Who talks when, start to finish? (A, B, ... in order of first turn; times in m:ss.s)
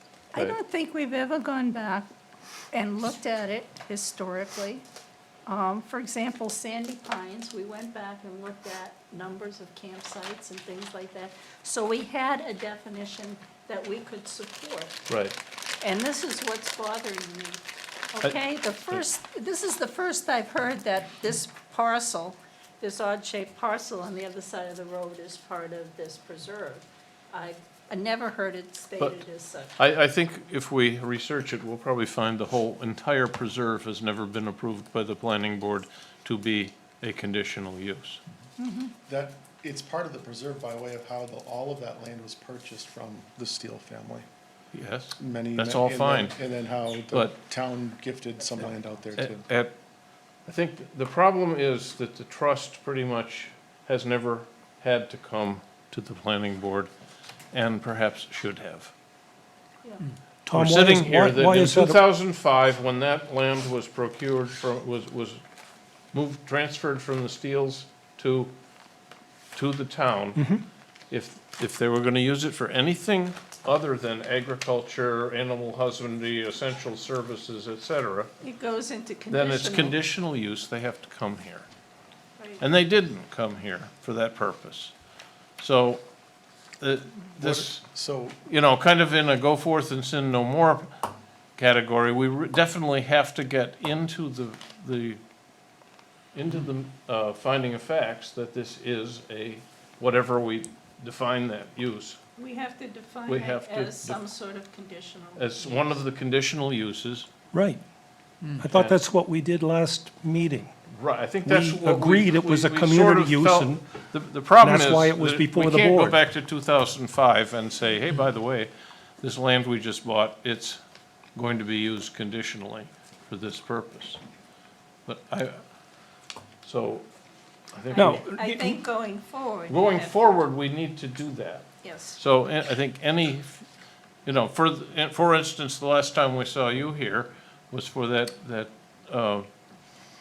0:00.3-0:02.1 A
0:02.7-0:04.8 A
0:05.5-0:15.1 A
0:15.1-0:15.4 B
0:15.8-0:17.6 A
0:18.1-0:29.7 A
0:29.8-0:38.2 B
0:38.6-0:38.9 A
0:39.1-0:44.3 C
0:44.7-0:46.4 B
0:45.2-0:49.5 C
0:47.1-0:47.4 B
0:48.6-0:49.8 B
0:50.5-0:56.9 B
0:57.5-0:58.9 B
1:00.5-1:02.0 D
1:00.5-1:05.4 B
1:06.1-1:08.5 B
1:09.6-1:10.4 B
1:10.4-1:10.6 D
1:11.1-1:18.3 B
1:18.4-1:20.0 A
1:19.3-1:21.7 B
1:22.6-1:24.9 B
1:25.6-1:26.0 B
1:26.8-1:27.8 B
1:27.4-1:28.4 C
1:28.5-1:31.0 B
1:31.6-1:35.2 B
1:36.3-1:42.2 B
1:42.4-1:46.0 A
1:43.3-1:44.2 B
1:45.4-1:47.3 B
1:47.5-1:47.8 D
1:48.6-1:50.7 D
1:48.7-1:49.0 B
1:50.9-2:00.8 B
1:51.4-1:53.8 D
1:54.6-1:56.2 D
2:01.4-2:04.2 B
2:05.1-2:05.6 B
2:06.6-2:07.1 B
2:07.7-2:08.3 B
2:07.9-2:10.1 A
2:08.0-2:08.8 D
2:09.7-2:13.7 B
2:11.8-2:12.2 A
2:14.2-2:19.5 B